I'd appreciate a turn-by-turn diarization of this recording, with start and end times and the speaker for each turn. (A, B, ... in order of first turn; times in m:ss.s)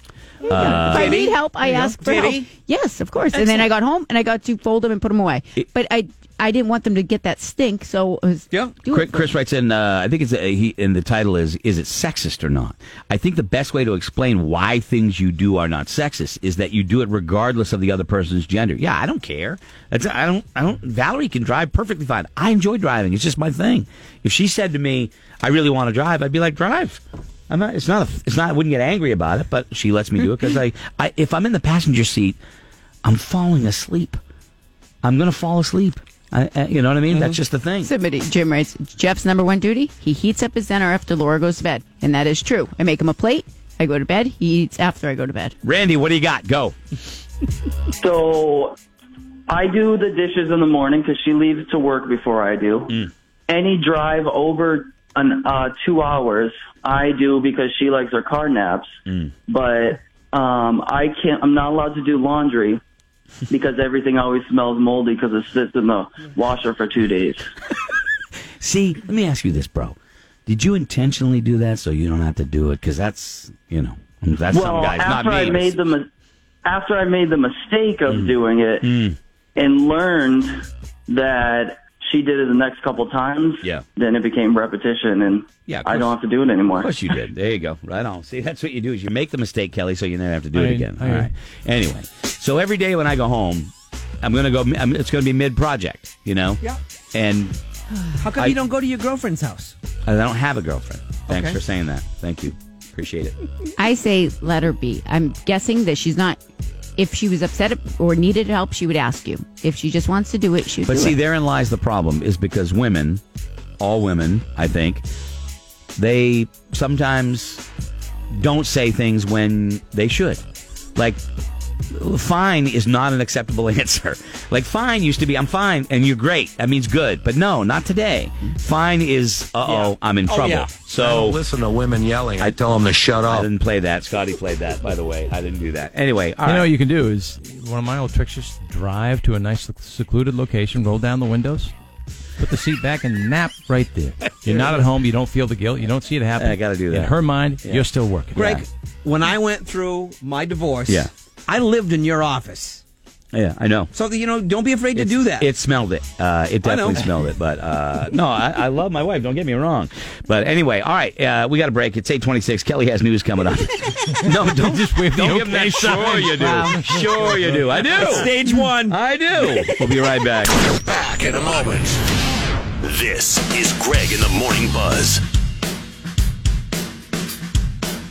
0:00.4-0:09.3 A
0:00.5-0:01.2 B
0:00.6-0:02.5 C
0:03.3-0:03.7 C
0:08.9-0:32.4 B
0:33.0-0:34.2 B
0:35.0-0:37.9 B
0:37.8-0:45.6 A
0:45.6-0:46.8 B
0:48.0-0:48.8 D
0:49.5-0:52.9 D
0:53.5-0:58.9 D
0:59.5-1:02.8 D
1:03.5-1:07.4 D
1:08.6-1:10.0 B
1:10.5-1:15.7 B
1:14.5-1:16.1 D
1:16.6-1:18.9 D
1:18.1-1:19.2 B
1:19.6-1:26.9 D
1:25.7-1:26.1 B
1:26.7-1:36.6 B
1:30.5-1:31.3 E
1:37.1-1:37.6 B
1:38.2-1:39.7 C
1:40.0-1:43.4 B
1:41.3-1:41.6 C
1:43.8-1:46.4 A
1:47.0-1:51.2 A
1:50.9-1:53.2 B
1:53.8-1:55.0 B
1:56.0-1:57.6 B
1:58.3-2:00.4 B
2:01.0-2:01.2 B
2:01.9-2:11.4 B
2:09.6-2:10.7 C
2:10.6-2:13.5 F
2:12.4-2:12.6 B
2:13.3-2:16.7 B
2:16.4-2:21.7 E
2:22.4-2:28.6 E
2:26.4-2:27.1 B
2:28.3-2:32.8 C
2:33.3-2:33.9 B
2:33.9-2:35.5 C
2:34.9-2:48.3 B
2:36.6-2:37.1 C
2:44.1-2:48.0 E
2:48.0-2:49.0 C
2:48.9-2:50.6 B
2:50.9-2:52.0 F
2:51.2-2:51.6 G
2:52.8-2:55.2 G